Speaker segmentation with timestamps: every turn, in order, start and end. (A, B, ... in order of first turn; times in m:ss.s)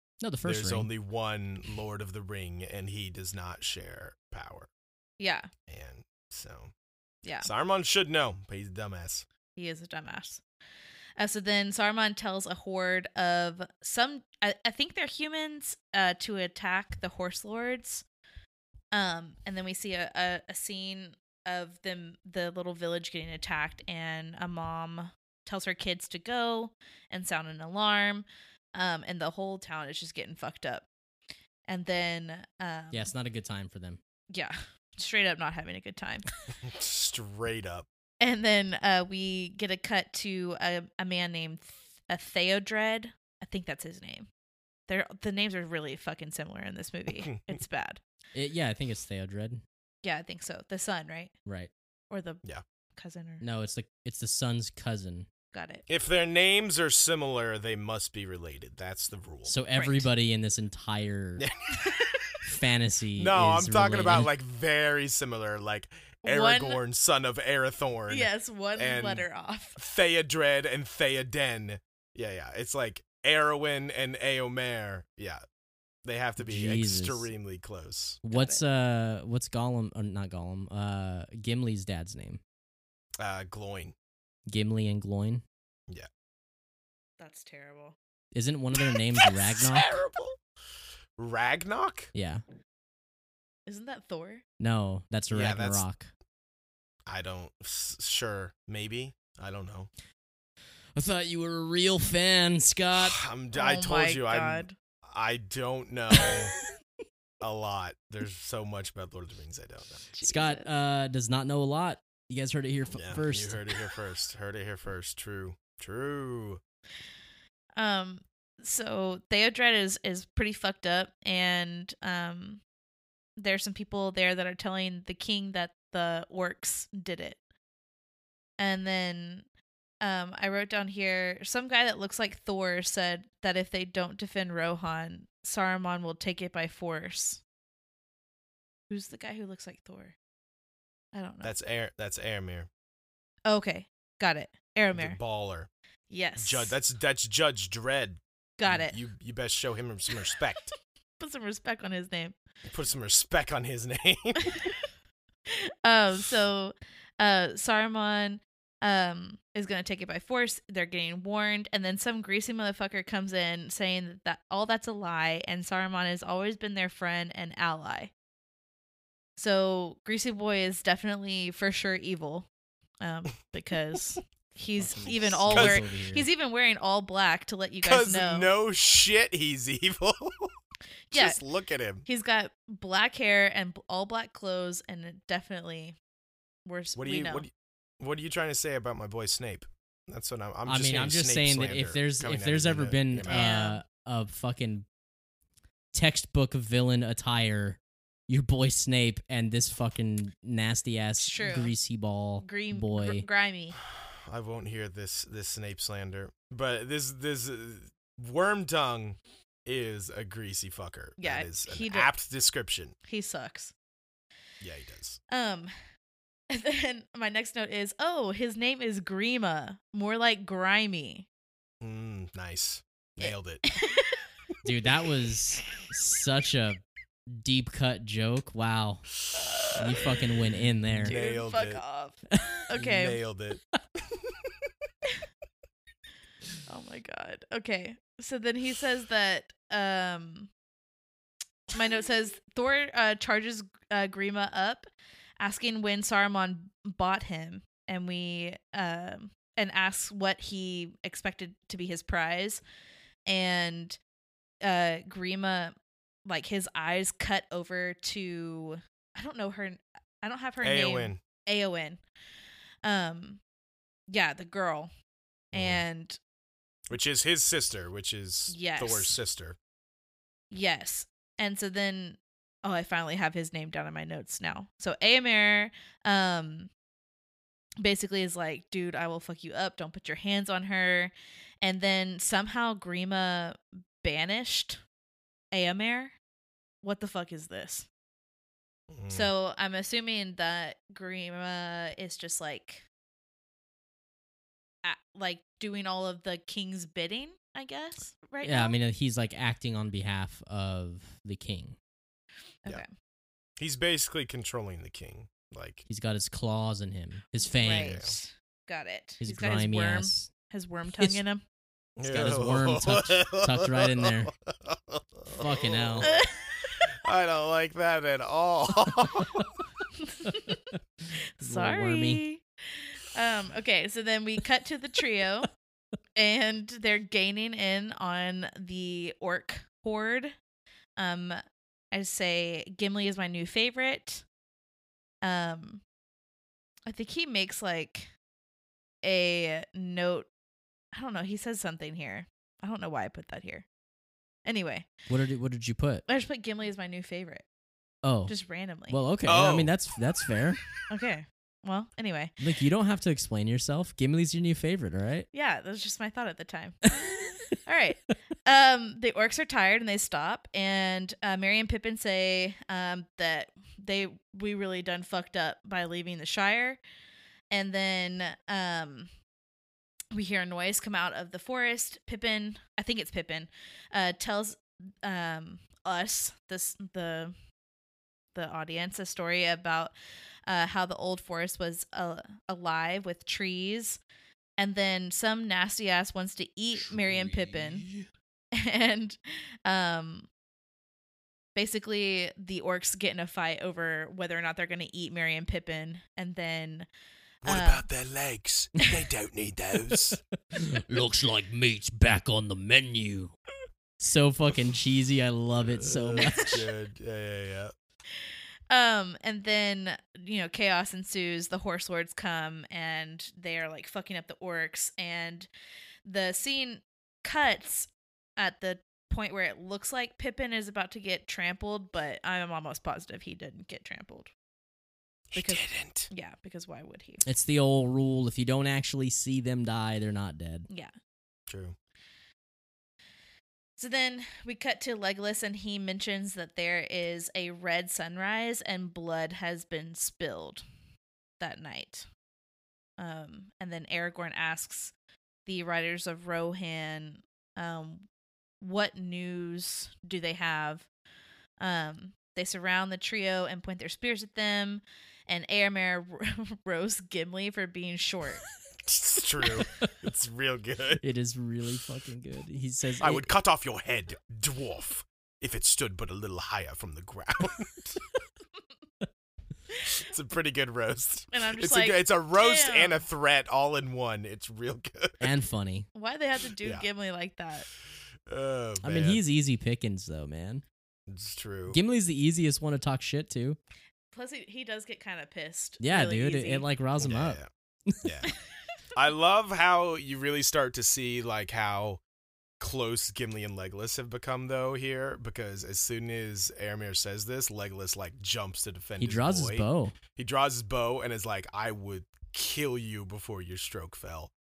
0:00.2-0:00.9 A
0:00.4-0:04.7 B
0:05.2-0:05.5 C
0:05.7-0:06.7 B
0:07.2-0:07.5 C
0:07.4-0:09.3 B
0:09.6-0:10.4 C
0:11.2-0:18.0 C
0:18.9-0:30.9 C
0:31.7-0:33.1 C
0:32.9-0:34.0 A
0:34.3-0:36.2 C
0:36.6-0:37.9 B
0:38.2-0:44.3 C
0:44.9-0:48.0 C
0:47.2-0:47.6 B
0:48.3-0:49.6 A
0:50.0-0:51.3 C
0:52.1-0:52.4 C
0:53.0-0:53.4 C
0:53.4-0:55.3 A
0:55.5-0:55.8 C
0:55.9-0:59.5 B
0:59.4-1:01.5 A
0:59.8-1:00.1 C
1:02.4-1:04.3 A
1:03.2-1:09.3 B
1:06.2-1:06.8 C
1:08.1-1:09.8 C
1:09.8-1:15.4 B
1:16.0-1:18.2 B
1:16.4-1:17.3 A
1:18.2-1:22.4 A
1:18.3-1:18.6 C
1:23.2-1:23.9 B
1:24.5-1:25.4 A
1:27.2-1:28.0 C
1:28.3-1:30.0 A
1:29.2-1:30.4 B
1:31.2-1:32.1 B
1:32.1-1:32.4 A
1:33.7-1:34.4 C
1:34.6-1:36.1 A
1:35.3-1:35.8 B
1:37.1-1:39.9 B
1:41.0-1:43.2 A
1:42.9-1:46.6 B
1:43.5-1:44.8 C
1:47.4-1:50.1 B
1:50.1-1:50.7 C
1:50.2-1:53.6 A
1:52.9-1:56.6 B
1:57.8-2:02.6 C
2:03.4-2:07.4 C
2:08.6-2:09.4 C
2:10.0-2:17.4 C
2:18.9-2:20.1 C
2:21.1-2:21.5 C
2:21.4-2:22.7 B
2:23.4-2:25.2 C
2:24.9-2:25.7 B
2:26.1-2:26.8 C
2:26.4-2:30.7 B
2:28.6-2:29.0 C
2:31.2-2:32.4 C
2:32.7-2:34.7 B
2:34.5-2:34.7 C
2:35.5-2:48.1 C
2:49.4-2:52.5 C
2:53.0-2:58.5 C
2:54.8-2:56.3 A
2:55.5-2:55.8 B
2:57.8-3:00.5 B
3:01.1-3:01.4 C
3:01.1-3:02.1 B
3:02.1-3:06.0 C
3:06.6-3:07.4 C
3:06.9-3:13.5 B
3:10.6-3:14.9 A
3:13.3-3:13.8 C
3:15.9-3:23.2 A
3:21.2-3:21.8 C
3:22.4-3:23.8 C
3:23.8-3:32.9 B
3:31.2-3:32.1 C
3:33.1-3:33.7 C
3:34.6-3:35.2 B
3:35.3-3:35.7 C
3:36.5-3:41.3 C
3:41.8-3:43.6 B
3:43.2-3:44.2 C
3:44.6-3:46.8 A
3:47.4-3:49.1 A
3:49.8-3:51.1 A
3:51.0-3:51.8 B
3:51.0-3:53.2 C
3:52.8-3:53.6 B
3:56.7-4:00.5 C
4:01.7-4:04.9 C
4:05.4-4:12.6 C
4:13.3-4:14.0 C
4:14.6-4:15.8 C
4:16.3-4:22.0 C
4:20.6-4:21.2 B
4:22.8-4:23.4 C
4:24.1-4:24.9 C
4:25.5-4:26.2 C
4:25.5-4:25.8 B
4:26.9-4:29.6 B
4:28.5-4:29.2 C
4:30.5-4:36.7 C
4:37.8-4:44.8 C
4:45.5-4:46.1 C
4:46.8-4:47.9 C
4:48.9-4:49.3 B
4:49.1-4:52.8 C
4:54.8-4:58.8 C
4:58.4-5:01.8 A
5:02.6-5:02.9 C
5:03.6-5:05.8 B
5:05.9-5:08.0 A
5:07.6-5:11.4 C
5:07.7-5:08.2 B
5:09.2-5:10.3 A
5:11.0-5:11.2 A
5:12.0-5:16.2 B
5:12.1-5:14.3 A
5:15.3-5:16.1 A
5:16.0-5:16.9 C
5:16.9-5:19.5 B
5:19.9-5:20.6 C
5:20.3-5:20.8 A
5:21.4-5:25.5 C
5:21.4-5:22.2 A
5:26.2-5:30.3 C
5:31.0-5:31.4 C
5:31.9-5:34.2 C
5:35.2-5:35.8 C
5:36.9-5:38.1 C
5:39.0-5:40.3 C
5:40.9-5:43.6 C
5:44.4-5:44.9 C
5:45.1-5:46.0 A
5:46.1-5:47.4 C
5:48.0-5:48.3 A
5:48.3-5:49.0 C
5:48.9-5:50.6 A
5:49.2-5:49.7 B
5:50.9-5:52.4 C
5:52.4-5:55.3 A
5:55.3-6:06.8 C
6:07.5-6:09.1 C
6:10.1-6:17.3 C
6:18.3-6:19.9 C
6:20.5-6:24.0 C
6:24.6-6:27.9 C
6:27.1-6:28.0 A
6:28.5-6:30.3 C
6:31.6-6:36.9 C
6:37.4-6:40.2 B
6:37.4-6:37.9 C
6:39.9-6:43.3 A
6:44.0-6:46.6 A
6:45.6-6:47.7 B
6:46.2-6:46.5 C
6:48.7-6:55.5 C
6:56.0-7:04.3 C
7:05.3-7:06.1 B
7:05.4-7:07.2 C
7:07.2-7:10.7 A
7:11.5-7:11.8 B
7:13.8-7:20.6 C
7:21.4-7:22.1 C
7:23.0-7:24.9 C
7:25.4-7:28.1 C
7:28.6-7:30.9 C
7:31.6-7:38.4 C
7:38.8-7:41.0 B
7:39.6-7:39.9 A
7:41.0-7:43.2 A
7:43.0-7:48.0 B
7:49.9-7:55.3 B
7:51.3-7:53.0 C
7:55.2-7:55.9 A
7:55.9-7:57.7 C
7:58.3-7:59.2 B
7:58.8-8:00.6 A
8:01.1-8:01.8 B
8:01.7-8:03.6 A
8:04.1-8:06.6 C
8:05.8-8:08.1 A
8:07.0-8:07.5 B
8:08.0-8:08.3 B
8:08.9-8:12.0 B
8:12.6-8:24.3 B
8:19.0-8:19.9 A